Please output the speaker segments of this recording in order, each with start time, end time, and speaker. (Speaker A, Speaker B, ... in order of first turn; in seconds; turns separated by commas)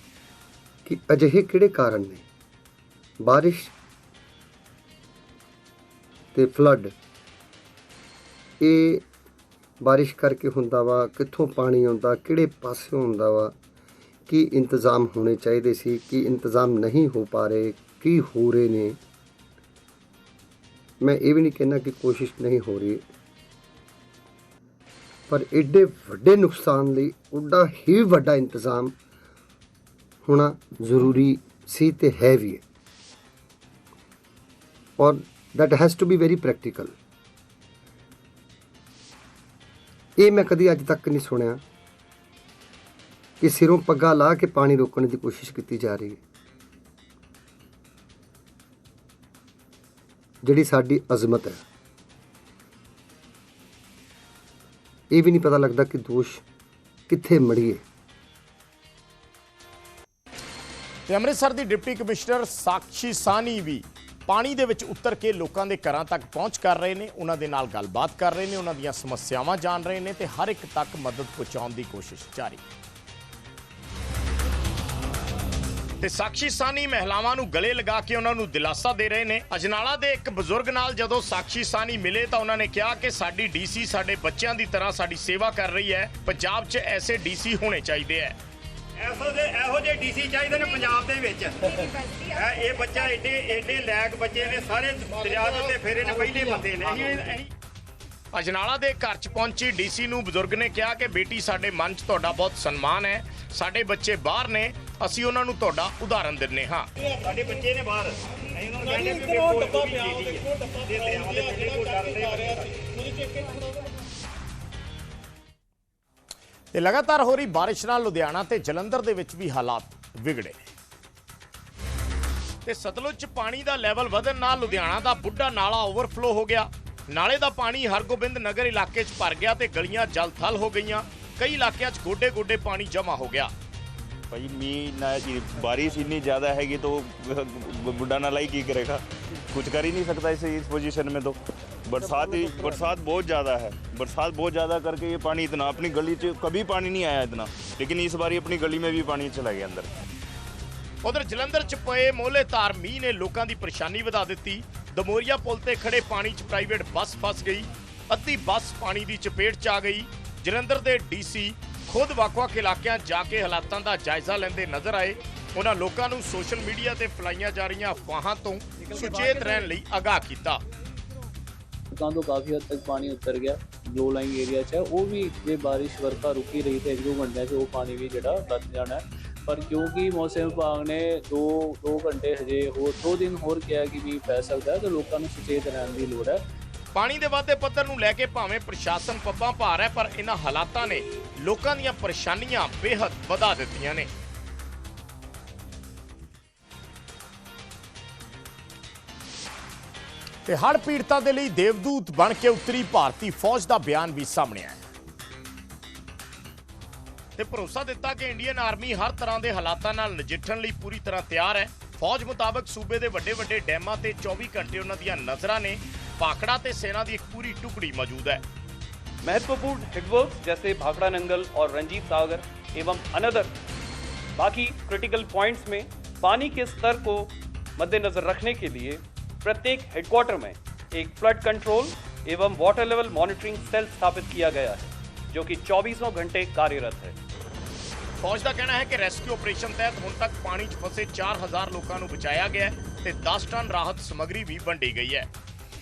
Speaker A: 0.8-2.2, Speaker A: 3.2-3.7, Speaker A: 6.3-6.9, Speaker A: 8.6-9.1, Speaker A: 9.8-13.6, Speaker A: 14.3-19.0, Speaker A: 21.0-23.0, Speaker A: 25.3-28.9, Speaker A: 30.2-32.6, Speaker A: 35.0-36.9, Speaker A: 40.2-41.6, Speaker A: 43.4-46.2, Speaker A: 50.4-51.6, Speaker A: 55.1-56.4, Speaker A: 57.1-57.8, Speaker B: 61.1-72.6, Speaker B: 76.0-88.3, Speaker C: 92.5-93.2, Speaker C: 95.2-96.6, Speaker B: 98.3-106.9, Speaker D: 108.6-113.4, Speaker B: 116.7-120.6, Speaker B: 122.6-133.5, Speaker C: 134.3-149.9, Speaker B: 151.0-170.6, Speaker E: 168.9-169.5, Speaker E: 171.9-186.4, Speaker B: 186.9-194.1, Speaker B: 200.4-204.8, Speaker B: 207.4-218.4, Speaker F: 219.2-223.5, Speaker F: 224.3-237.1, Speaker B: 238.2-245.3